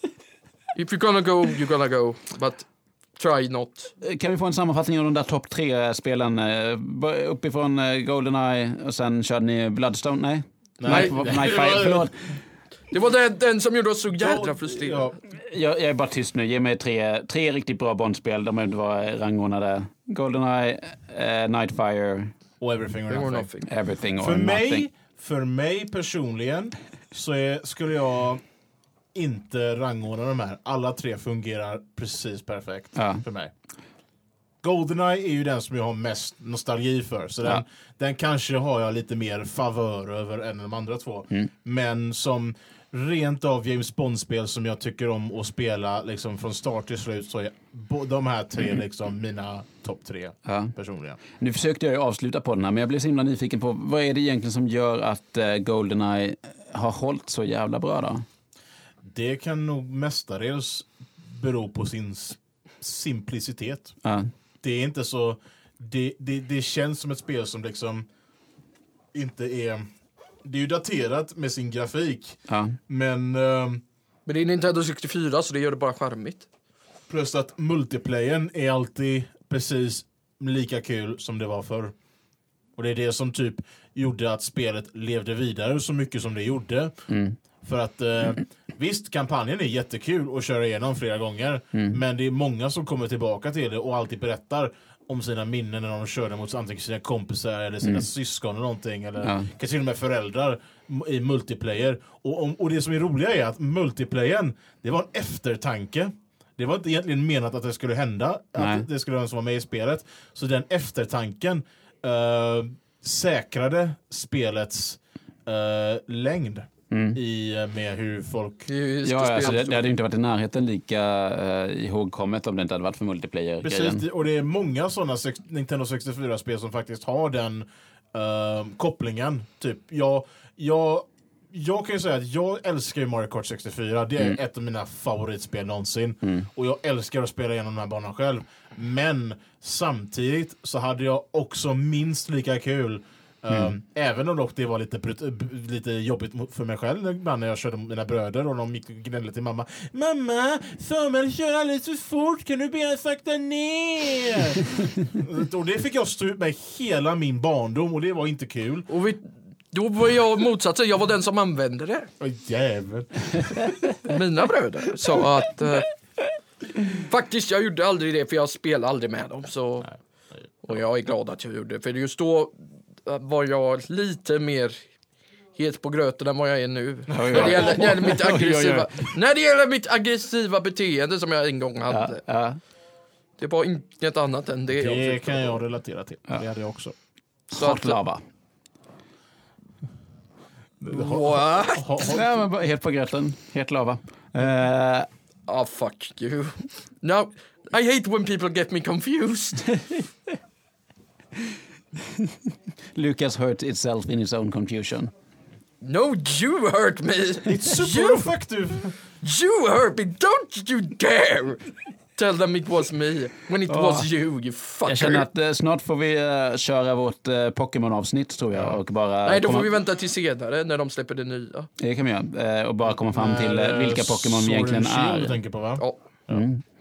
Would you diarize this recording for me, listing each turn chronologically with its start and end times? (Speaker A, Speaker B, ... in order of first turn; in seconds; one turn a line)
Speaker A: 0.7-2.6
Speaker A: 3.2-3.9
Speaker B: 4.0-12.1
Speaker C: 10.8-12.1
Speaker A: 10.9-11.7
Speaker A: 12.9-15.1
Speaker C: 14.1-15.2
Speaker B: 15.3-22.3
Speaker C: 22.6-23.5
Speaker A: 23.1-23.7
Speaker B: 23.6-24.9
Speaker C: 24.2-28.4
Speaker C: 29.1-33.5
Speaker B: 33.0-33.2
Speaker C: 34.6-51.2
Speaker B: 50.5-50.7
Speaker B: 51.3-58.2
Speaker C: 59.0-63.9
Speaker B: 64.0-64.3
Speaker C: 64.6-68.0
Speaker C: 69.1-69.8
Speaker C: 70.4-73.8
Speaker B: 72.5-72.8
Speaker A: 74.2-76.5
Speaker C: 77.1-81.9
Speaker C: 82.8-86.9
Speaker B: 87.1-87.4
Speaker C: 87.6-118.7
Speaker B: 99.2-99.5
Speaker B: 108.6-108.8
Speaker B: 116.9-117.2
Speaker A: 118.7-119.9
Speaker B: 119.0-124.0
Speaker C: 123.6-158.9
Speaker A: 158.9-162.1
Speaker C: 162.2-163.9
Speaker A: 164.0-165.9
Speaker A: 166.8-169.9
Speaker A: 170.6-174.8
Speaker A: 175.6-182.2
Speaker B: 177.1-179.1
Speaker C: 177.2-177.8
Speaker B: 181.9-182.6
Speaker A: 183.4-185.6
Speaker C: 184.7-186.9
Speaker B: 187.5-188.2
Speaker A: 187.6-188.0
Speaker C: 190.8-192.2
Speaker A: 190.9-191.9
Speaker B: 192.0-195.1
Speaker A: 195.5-199.7
Speaker B: 202.1-205.1
Speaker A: 205.8-208.2
Speaker C: 207.4-208.9
Speaker A: 209.2-215.2
Speaker B: 213.7-214.1
Speaker B: 214.8-219.7
Speaker C: 218.5-218.8
Speaker A: 219.2-221.7
Speaker B: 221.8-225.4
Speaker C: 223.1-226.4
Speaker B: 226.3-226.6